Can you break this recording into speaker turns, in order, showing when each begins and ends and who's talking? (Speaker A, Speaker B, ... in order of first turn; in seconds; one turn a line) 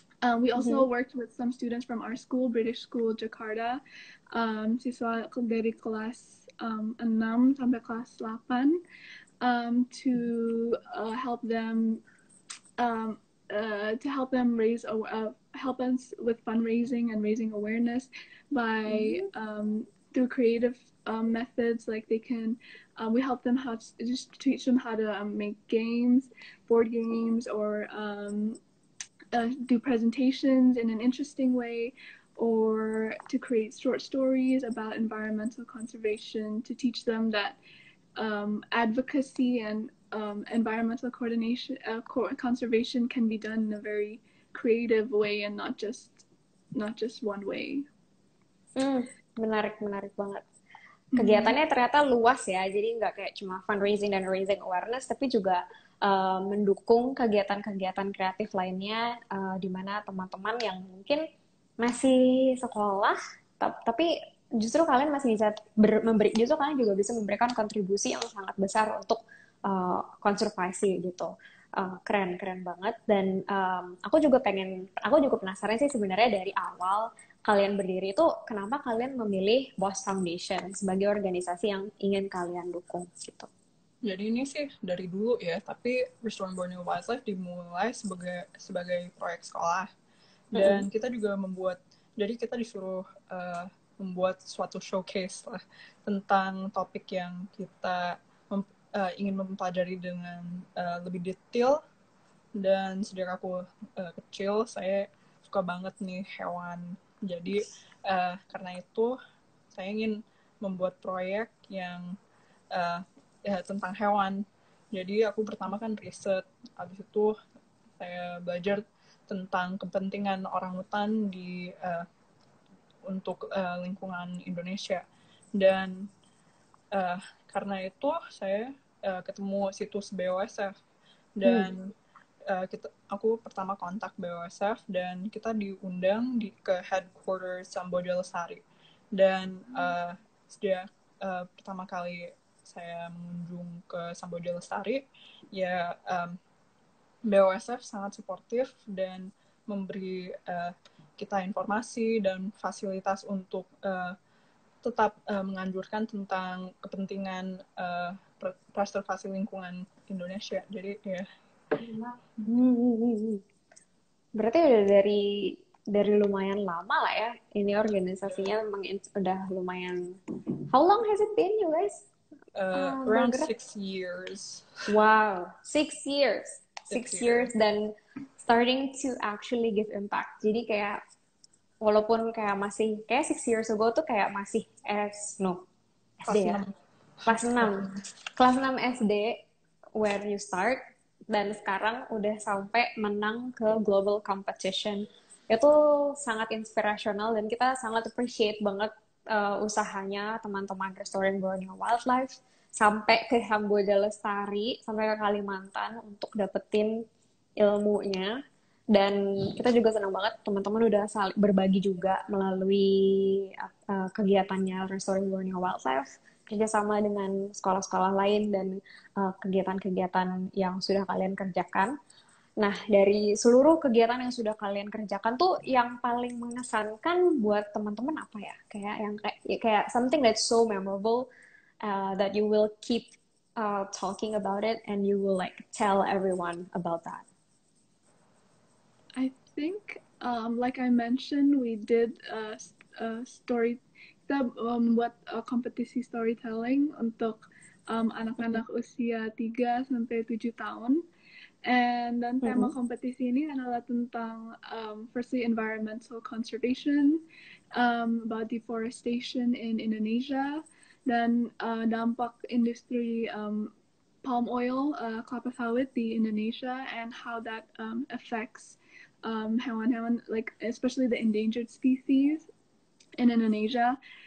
Speaker A: 0.2-3.8
Speaker B: 0.6-0.9
Speaker A: 4.3-8.8
Speaker A: 9.4-12.0
Speaker A: 12.8-28.6
Speaker B: 18.9-19.2
Speaker A: 29.3-37.6
Speaker A: 38.2-46.2
Speaker A: 46.8-47.9
Speaker B: 48.8-50.4
Speaker A: 51.1-51.6
Speaker B: 51.2-61.2
Speaker B: 61.8-83.5
Speaker C: 84.0-89.9
Speaker C: 90.5-101.8
Speaker B: 90.6-90.9
Speaker C: 102.5-109.2
Speaker C: 109.7-112.2
Speaker C: 112.7-117.4
Speaker C: 118.0-122.1
Speaker C: 123.0-126.1
Speaker C: 126.9-130.7
Speaker C: 131.4-131.9
Speaker B: 131.4-131.7
Speaker C: 132.5-138.6
Speaker C: 139.1-146.4
Speaker C: 147.3-154.2
Speaker C: 154.8-161.3
Speaker B: 161.8-163.4
Speaker B: 164.4-172.1
Speaker C: 172.6-174.9
Speaker B: 172.7-173.5
Speaker B: 174.9-181.0
Speaker C: 176.9-177.5
Speaker B: 181.8-185.7
Speaker B: 186.2-186.6
Speaker C: 186.2-188.0
Speaker B: 187.3-189.4
Speaker B: 190.0-206.9
Speaker B: 207.6-208.4
Speaker B: 208.9-222.0
Speaker B: 222.6-231.3
Speaker B: 231.8-237.2
Speaker A: 239.2-251.1
Speaker A: 251.6-257.2
Speaker B: 252.4-252.7
Speaker A: 257.7-263.7
Speaker A: 264.2-272.5
Speaker A: 273.2-274.0